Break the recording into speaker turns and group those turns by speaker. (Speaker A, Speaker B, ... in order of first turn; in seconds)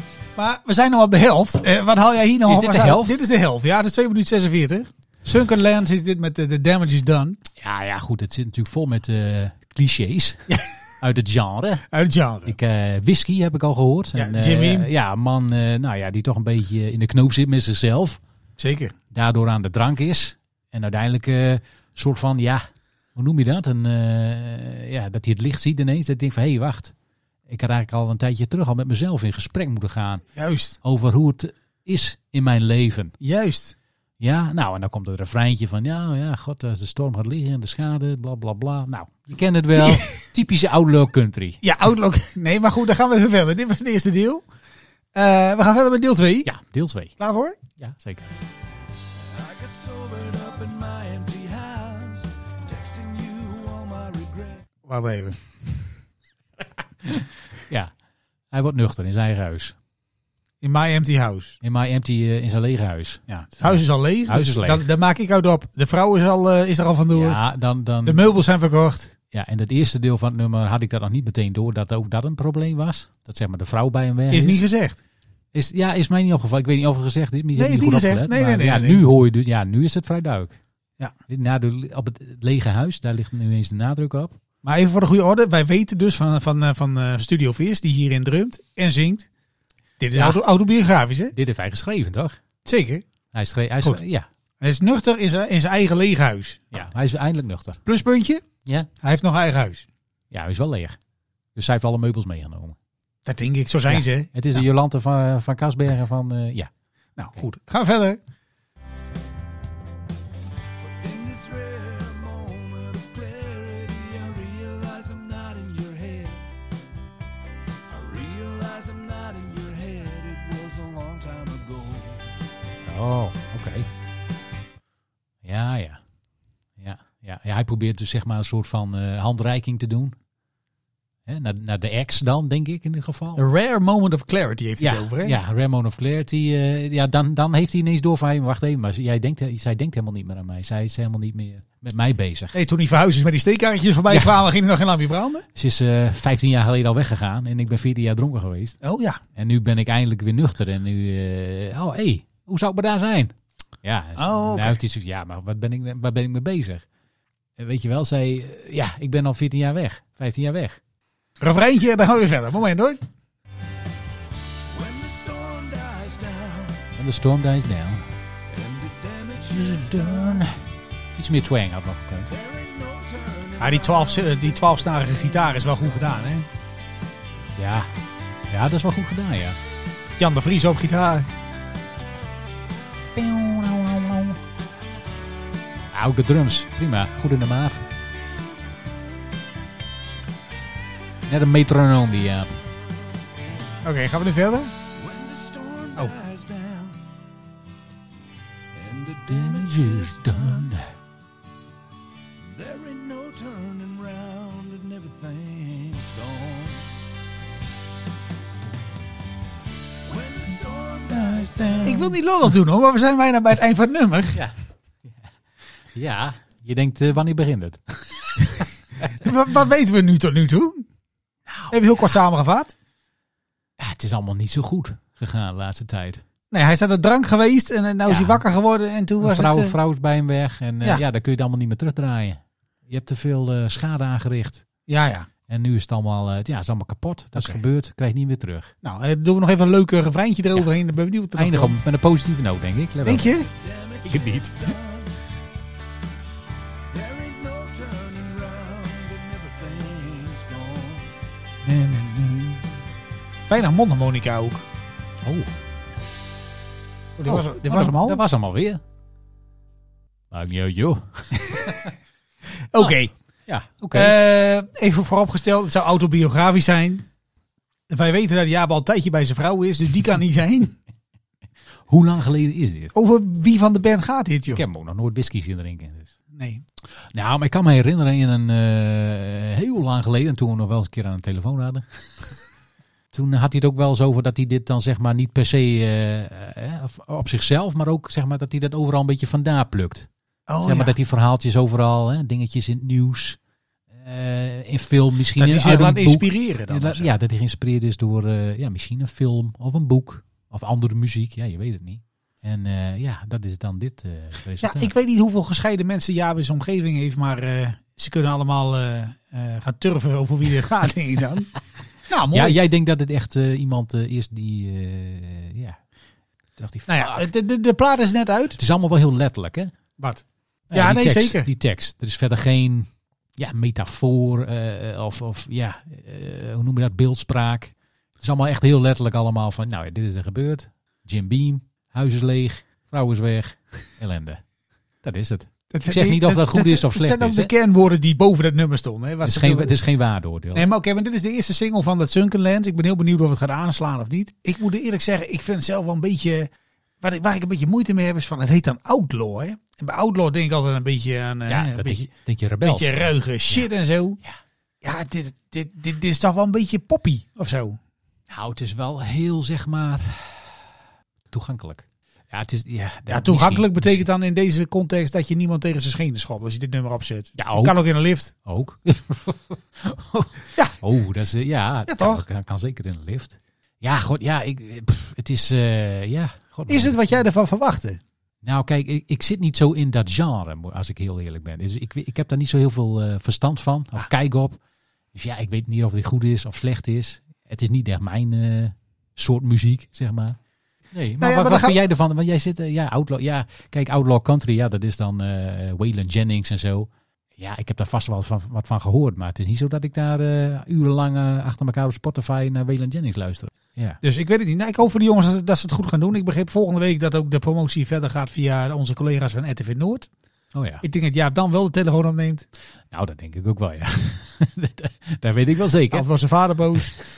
Speaker A: 0.4-7.4, 11.9-12.6, 14.2-14.9, 18.6-18.9, 30.4-30.8, 33.2-33.7, 39.8-40.1, 41.6-44.4, 45.1-46.5, 47.2-47.6, 54.9-55.4, 60.6-61.6, 63.3-67.4, 68.0-69.1, 74.3-75.0, 77.5-79.0, 84.6-89.2, 90.0-91.3, 92.6-93.0, 94.6-96.7, 97.8-98.4, 99.0-99.9, 103.2-104.6, 107.2-108.2, 133.4-135.4, 142.5-145.4, 148.8-149.2, 154.2-154.8, 161.4-163.0, 173.6-176.4, 180.2-181.3, 193.8-194.7, 211.8-214.4, 219.0-220.8, 221.7-222.7, 226.5-229.7, 234.9-235.3, 237.4-237.6, 238.8-241.8, 243.0-243.5, 251.6-252.7, 253.5-254.6, 257.2-258.2, 261.5-261.8, 262.7-263.1, 263.9-267.0, 267.9-270.7, 272.9-274.6, 276.3-276.6, 290.5-290.9, 295.4-297.1, 304.6-311.5, 312.1-312.6, 316.9-318.6, 320.0-321.5, 335.7-339.7, 340.5-346.5, 347.0-352.1, 352.6-354.2, 354.8-357.8, 363.1-368.3, 371.9-372.2, 376.7-378.0, 391.2-391.8, 404.0-410.1, 410.8-412.4, 415.9-416.9
Speaker B: 2.5-3.2, 7.6-11.8, 12.4-18.2, 19.1-26.9, 27.5-30.2, 30.8-33.1, 34.2-41.6, 46.4-47.1, 47.8-48.3, 57.0-57.9, 58.5-59.7, 61.6-64.9, 67.1-68.3, 69.3-74.6, 75.5-80.6, 81.3-84.4, 90.1-90.4, 91.3-92.4, 93.3-94.3, 96.7-97.8, 100.3-101.0, 101.5-102.8, 103.9-106.7, 122.8-123.9, 125.4-126.0, 126.8-130.2, 131.2-133.5, 134.8-142.5, 145.5-148.8, 149.3-156.8, 157.6-160.8, 166.9-168.1, 169.5-170.6, 171.2-172.3, 177.6-177.9, 178.5-179.6, 183.1-184.4, 185.9-187.8, 191.3-192.6, 199.3-200.9, 211.1-212.1, 215.1-215.3, 215.9-218.7, 221.5-221.8, 223.8-226.2, 228.1-228.4, 229.2-234.6, 235.5-238.7, 241.4-243.4, 244.0-244.7, 257.2-258.8, 260.3-261.9, 263.5-264.2, 271.9-272.9, 274.5-276.1, 277.0-282.2, 283.1-290.1, 290.6-293.4, 293.9-304.9, 312.3-315.8, 316.6-317.3, 318.5-319.8, 320.7-334.4, 335.0-337.5, 339.2-340.7, 351.4-353.6, 358.3-360.6, 361.3-364.0, 367.4-367.7, 368.4-377.0, 378.4-384.6, 385.1-390.4, 390.9-404.0, 410.5-410.8, 412.9-416.1
Speaker C: 49.3-54.6, 110.8-116.5, 117.9-122.4, 164.7-166.9, 168.5-170.4, 172.3-176.3, 195.0-197.0, 198.7-200.7, 202.4-206.9, 210.0-212.1, 243.5-245.2, 246.9-251.1